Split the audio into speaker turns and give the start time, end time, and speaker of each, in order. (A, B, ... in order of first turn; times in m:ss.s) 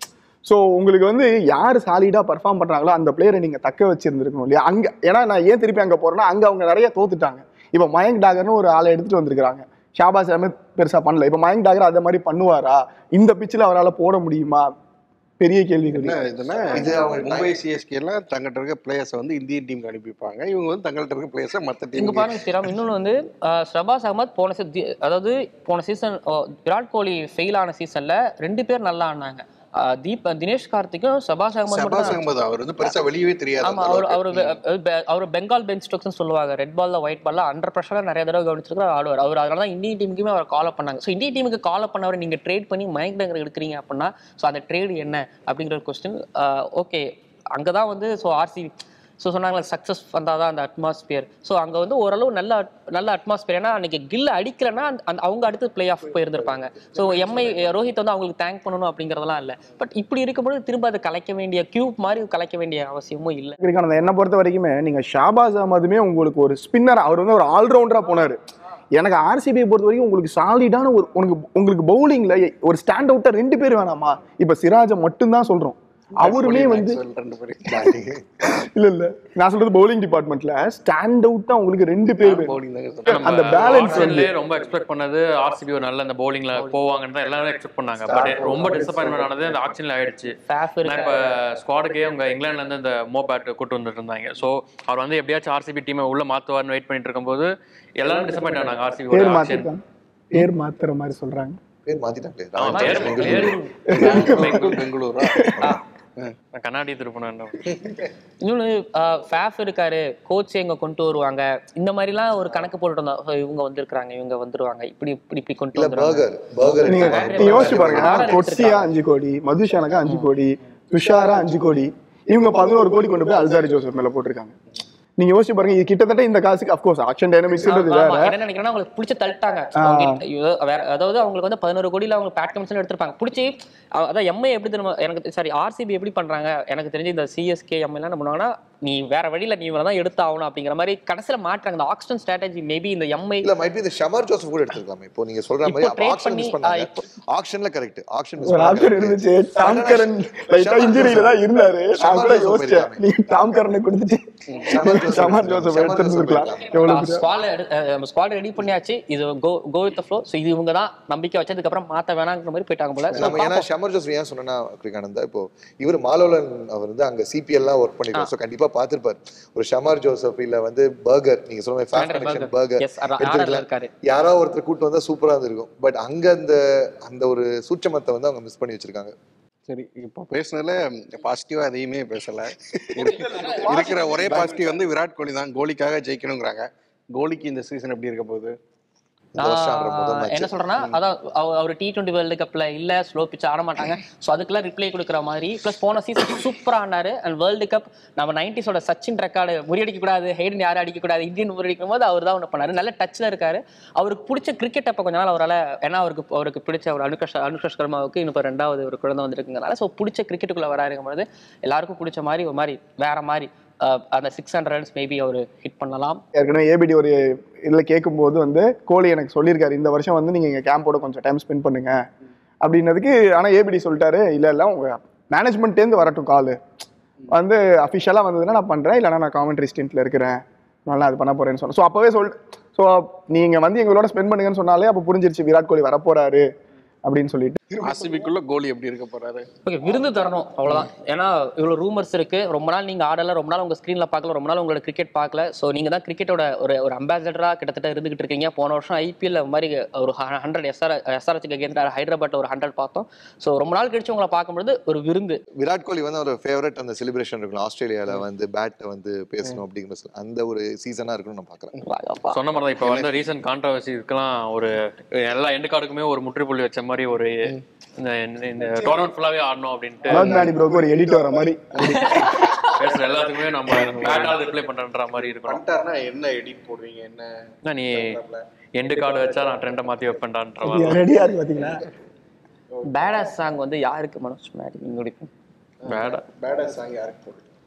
0:00.4-0:14.7 A
0:15.4-0:16.2 A
0:15.9-0:22.3 B
0:16.7-0:17.5 C
0:22.0-0:32.2 D
0:31.7-0:34.6 B
0:33.6-1:03.6 D
0:56.8-0:57.6 A
1:03.6-1:08.4 A
1:08.9-1:17.0 A
1:16.2-1:17.9 B
1:17.7-1:18.2 C
1:18.5-1:22.6 A
1:22.2-1:24.3 B
1:23.1-1:39.7 E
1:23.1-1:24.3 A
1:28.1-1:29.6 B
1:30.5-1:31.2 D
1:39.1-1:41.6 A
1:41.8-1:43.6 C
1:42.6-1:44.8 E
1:42.7-1:44.4 D
1:43.9-1:45.7 A
1:44.0-1:45.5 B
1:46.5-1:47.6 E
1:47.7-1:48.0 B
1:48.4-1:56.2 D
1:55.7-1:58.3 C
1:56.8-2:04.6 A
1:56.9-1:58.8 D
2:05.2-2:08.3 A
2:07.6-2:23.5 D
2:09.8-2:10.2 A
2:23.4-2:31.4 C
2:25.6-2:27.0 D
2:28.4-2:37.2 A
2:31.9-2:33.0 C
2:34.6-2:36.7 C
2:36.8-2:43.6 D
2:43.1-2:59.1 C
2:51.9-2:53.9 D
2:59.7-3:08.5 B
3:03.0-3:04.8 A
3:09.4-3:10.5 C
3:09.4-3:36.2 D
3:36.3-3:42.0 A
3:42.6-3:46.6 A
3:47.3-3:56.4 A
3:57.0-3:57.6 A
3:57.8-3:59.5 B
3:59.6-4:15.4 D
4:15.6-4:21.7 C
4:21.8-4:22.4 D
4:22.3-4:30.5 E
4:22.8-4:23.1 B
4:30.1-4:32.2 A
4:30.1-4:30.6 B
4:31.8-4:32.4 B
4:32.0-4:32.7 D
4:32.8-4:35.6 E
4:33.7-4:34.5 B
4:35.1-4:37.3 B
4:37.6-4:38.2 E
4:37.9-4:39.9 B
4:38.8-4:41.0 E
4:40.6-4:41.8 A
4:42.8-4:43.2 B
4:42.8-4:45.3 D
4:45.8-4:47.4 B
4:45.8-4:46.2 E